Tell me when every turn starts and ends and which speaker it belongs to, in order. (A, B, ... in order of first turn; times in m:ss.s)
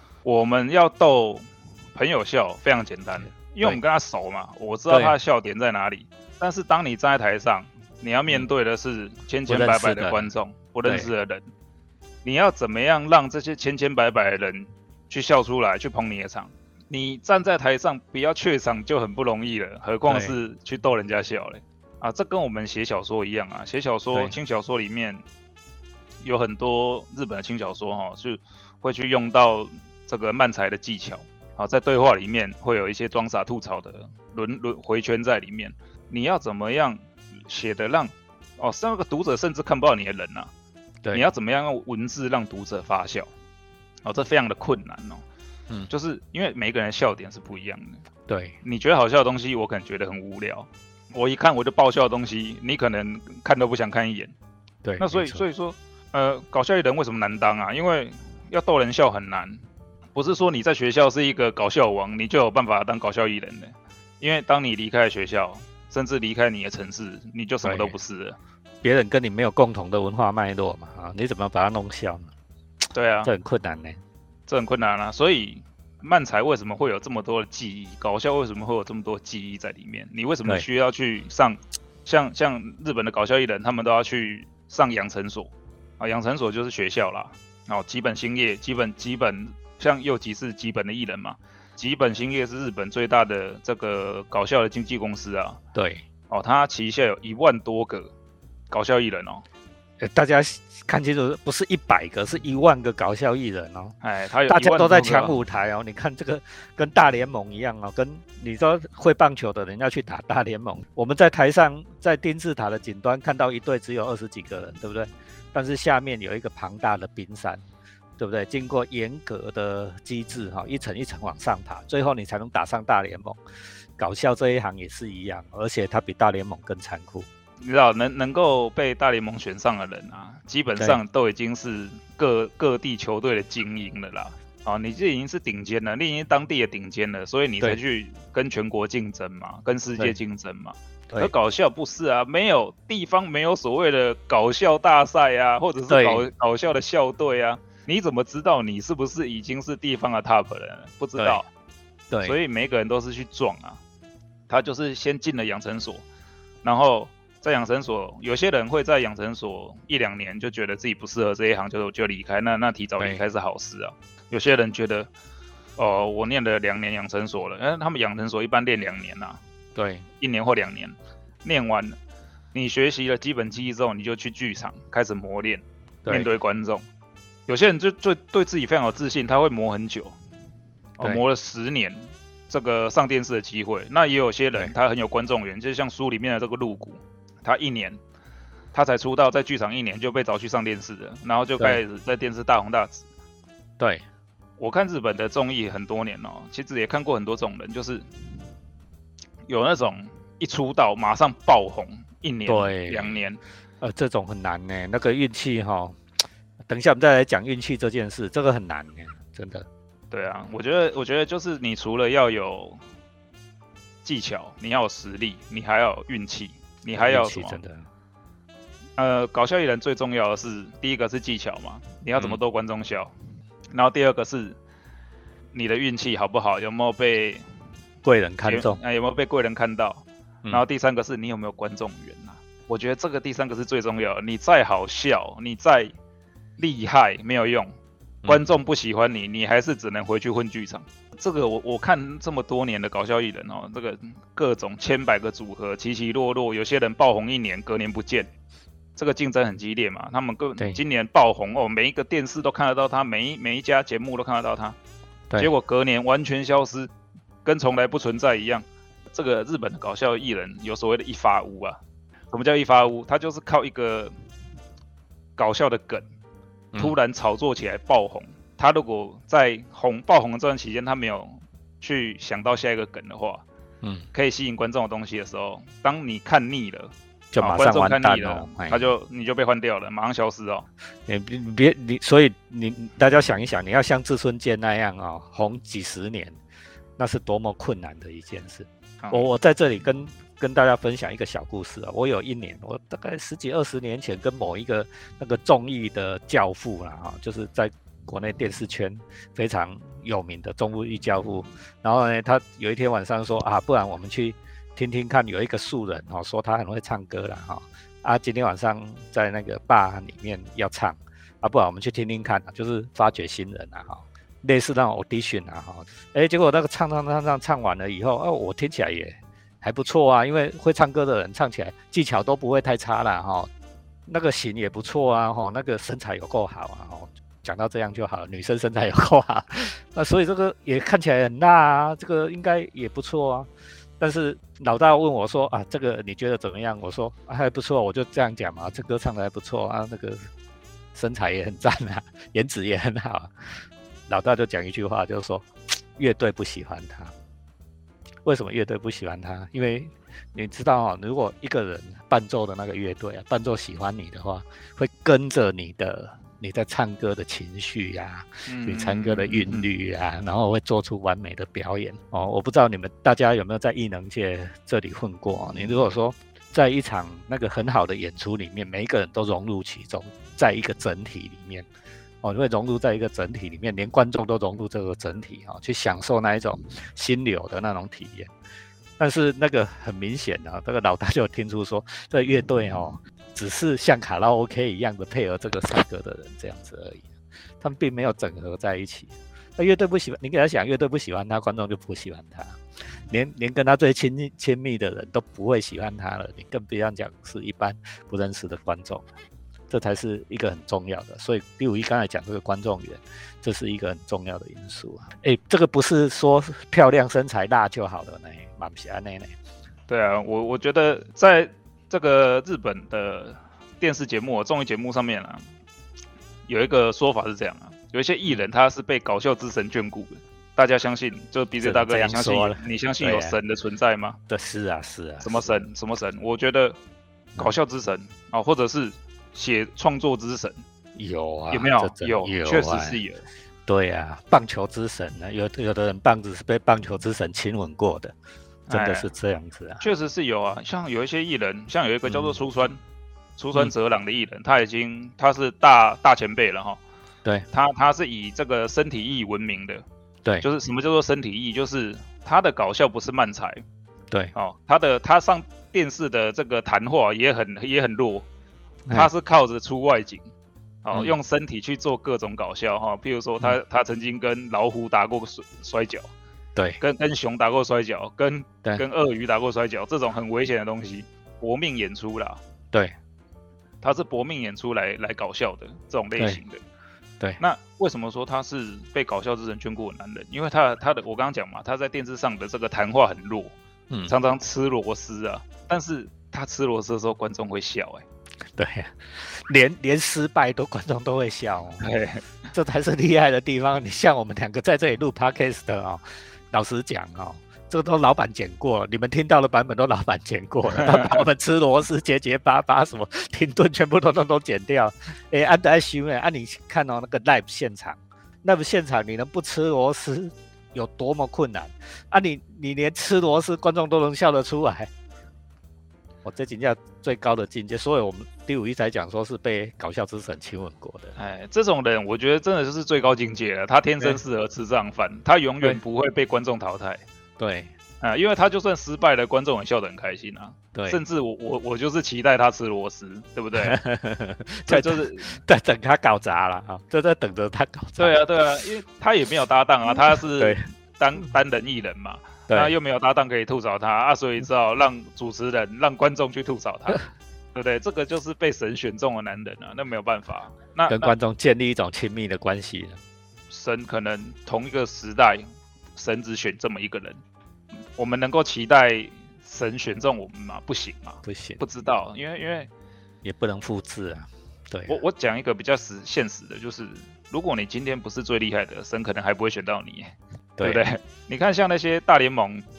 0:00.2-0:11.4 A
0:04.9-0:05.1 B
0:09.5-0:10.3 B
0:10.8-0:11.1 B
0:12.2-0:25.2 A
0:20.1-0:20.4 B
0:26.2-0:40.5 A
0:41.1-0:43.3 A
0:44.0-0:45.2 A
0:45.9-0:48.0 A
0:48.3-0:48.6 B
0:48.6-0:54.3 A
0:54.8-0:55.4 B
0:55.0-0:59.6 A
1:00.1-1:08.4 A
1:07.6-1:07.9 B
1:08.8-1:12.3 B
1:12.9-1:13.3 A
1:13.2-1:14.0 B
1:14.5-1:35.6 A
1:35.7-1:36.0 B
1:36.3-1:38.1 A
1:38.7-1:39.4 A
1:40.0-1:44.0 B
1:44.0-1:45.4 A
1:44.5-1:57.6 B
1:58.2-2:03.4 B
2:04.0-2:07.3 B
2:07.6-2:31.4 A
2:25.9-2:26.2 B
2:31.2-2:31.4 B
2:32.1-2:32.4 B
2:32.2-2:33.8 A
2:34.5-2:36.0 A
2:36.6-2:45.1 A
2:45.8-2:49.4 A
2:49.7-2:50.0 B
2:50.2-2:52.0 A
2:52.5-2:56.8 A
2:57.5-3:00.2 A
3:01.0-3:08.0 A
3:08.7-3:13.0 A
3:13.8-3:14.0 B
3:14.6-3:18.0 A
3:19.5-3:23.4 A
3:22.5-3:23.2 B
3:23.8-3:26.0 B
3:26.6-3:29.7 B
3:30.1-3:32.8 A
3:34.0-3:37.6 A
3:36.9-3:37.8 B
3:39.0-3:43.1 A
3:43.7-3:44.6 A
3:45.5-3:47.4 A
3:48.0-3:48.8 B
3:48.4-3:55.9 A
3:56.6-3:57.7 A
3:58.2-4:08.3 A
4:09.0-4:14.8 A
4:15.4-4:16.9 A
4:17.4-4:21.8 A
4:22.3-4:24.1 A
4:25.4-4:26.0 A
4:26.8-4:33.4 A
4:33.8-4:34.1 B
4:34.1-4:40.7 A
4:37.3-4:38.9 B
4:41.0-4:46.4 B
4:47.0-5:23.5 B
4:49.0-4:49.3 A
5:24.1-5:40.3 B
5:40.9-5:47.1 B
5:48.2-6:11.7 B
5:58.4-5:59.7 A
6:12.2-6:18.3 B
6:19.0-6:27.1 B
6:27.6-6:39.0 B
6:39.7-6:49.3 B
6:49.9-6:55.4 A
6:56.5-7:04.2 A
7:01.6-7:03.4 B
7:04.3-7:05.6 B
7:05.2-7:06.8 A
7:07.4-7:10.6 A
7:11.0-7:13.0 B
7:11.5-7:13.2 A
7:13.7-7:18.1 B
7:18.7-7:19.1 A
7:18.7-7:19.8 B
7:19.8-7:22.8 A
7:22.0-7:22.4 B
7:23.4-7:26.8 A
7:27.5-7:29.8 A
7:30.4-7:33.6 A
7:34.3-7:38.2 A
7:38.9-7:40.2 A
7:40.8-7:46.1 A
7:46.8-7:52.4 A
7:53.8-7:56.6 A
7:57.4-8:03.5 A
8:04.1-8:08.0 A
8:08.6-8:11.9 B
8:11.8-8:12.2 A
8:12.5-8:34.9 B
8:20.7-8:21.2 A
8:36.2-8:41.2 B
8:41.2-8:47.0 A
8:47.4-8:47.7 B
8:48.0-8:53.8 A
8:50.7-8:51.0 B
8:53.6-8:58.2 B
8:54.7-8:55.4 A
8:58.0-9:11.1 A
8:59.9-9:00.6 B
9:02.5-9:02.7 B
9:10.9-9:13.0 B
9:13.5-9:17.2 A
9:18.0-9:22.7 A
9:21.2-9:21.6 B
9:23.2-9:25.0 B
9:24.9-9:32.6 A
9:30.6-9:30.8 B